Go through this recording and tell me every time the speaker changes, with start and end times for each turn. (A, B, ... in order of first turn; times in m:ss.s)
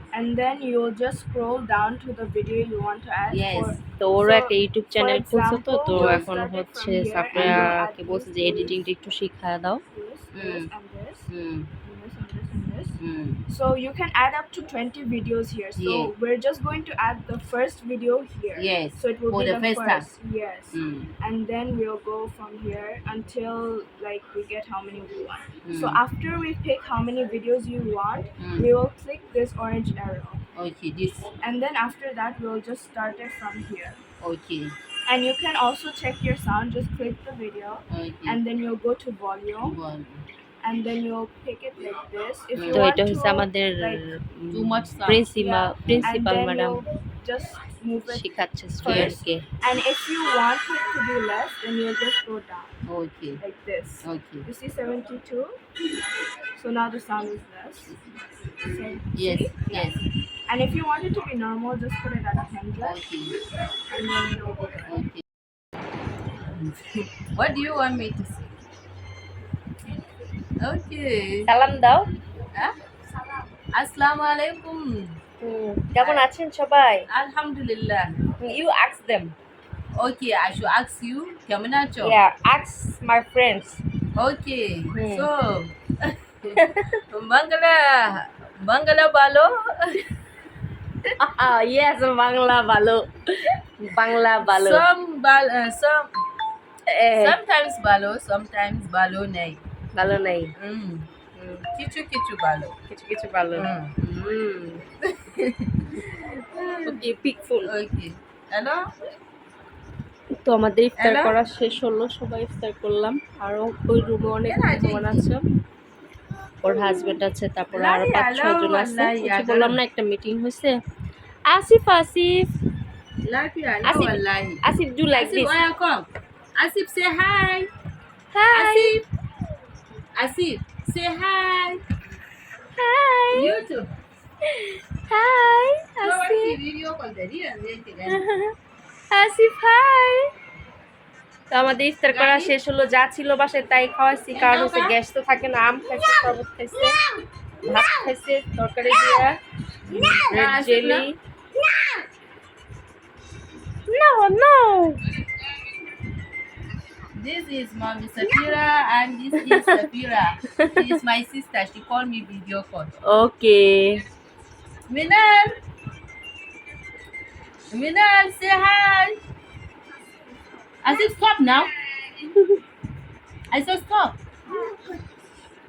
0:00.1-0:08.8 A
0:03.3-0:03.8 B
0:04.0-0:09.8 C
0:05.9-0:06.3 B
0:07.3-0:07.7 B
0:09.8-0:30.4 A
0:10.3-0:10.7 B
0:11.3-0:11.7 B
0:13.0-0:13.4 B
0:15.7-0:16.1 B
0:18.5-0:20.1 B
0:20.7-0:21.1 B
0:25.6-0:26.0 B
0:28.4-0:28.7 B
0:30.5-0:31.3 B
0:31.4-0:34.0 A
0:34.2-0:34.7 B
0:35.0-0:39.8 A
0:37.9-0:38.4 B
0:39.6-0:40.2 B
0:40.6-0:44.0 A
0:42.5-0:42.9 B
0:42.7-0:46.8 C
0:44.5-0:46.1 B
0:45.3-0:52.7 A
0:48.0-0:49.4 C
0:48.8-0:49.2 B
0:52.8-0:53.4 B
0:53.4-0:55.6 A
0:54.0-0:54.4 B
0:56.5-0:58.0 A
0:58.6-1:03.0 A
0:59.1-1:00.0 B
1:02.8-1:03.4 B
1:03.7-1:05.0 A
1:04.9-1:05.2 B
1:06.5-1:08.5 B
1:10.6-1:11.5 B
1:11.4-1:12.1 C
1:12.9-1:13.6 A
1:13.7-1:15.2 B
1:15.4-1:17.1 C
1:16.0-1:16.3 B
1:17.1-1:18.3 B
1:18.4-1:19.3 C
1:19.9-1:22.2 B
1:22.0-1:23.8 C
1:24.1-1:30.0 B
1:24.9-1:25.3 C
1:26.6-1:27.0 C
1:31.2-1:34.9 C
1:34.4-1:36.1 B
1:36.9-1:37.4 C
1:37.1-1:39.6 B
1:39.9-1:40.5 C
1:40.6-1:41.1 B
1:41.4-1:41.6 C
1:41.7-1:42.7 B
1:42.9-1:44.8 C
1:43.5-1:44.0 B
1:45.1-1:47.1 B
1:46.8-1:47.7 C
1:47.6-1:48.9 B
1:50.4-1:55.4 C
1:51.0-1:51.4 B
1:54.4-1:55.3 B
1:56.6-2:00.8 C
1:57.7-1:59.8 B
2:01.5-2:02.5 C
2:03.2-2:04.6 B
2:03.8-2:05.6 C
2:05.1-2:07.7 B
2:08.3-2:09.0 C
2:08.5-2:09.0 B
2:10.1-2:11.8 B
2:12.8-2:13.6 C
2:13.3-2:13.9 B
2:14.4-2:16.6 C
2:16.0-2:18.2 B
2:18.1-2:18.6 C
2:19.1-2:20.3 C
2:21.5-2:27.0 C
2:22.0-2:22.5 B
2:24.3-2:25.0 B
2:27.6-2:31.2 C
2:29.9-2:31.1 B
2:33.9-2:35.0 C
2:37.1-2:42.9 B
2:39.4-2:39.7 C
2:40.6-2:41.0 C
2:43.0-2:44.1 C
2:44.9-2:45.6 B
2:47.7-2:49.2 B
2:49.7-2:51.1 A
2:50.8-2:52.3 B
2:53.5-2:54.2 B
2:54.4-2:55.2 A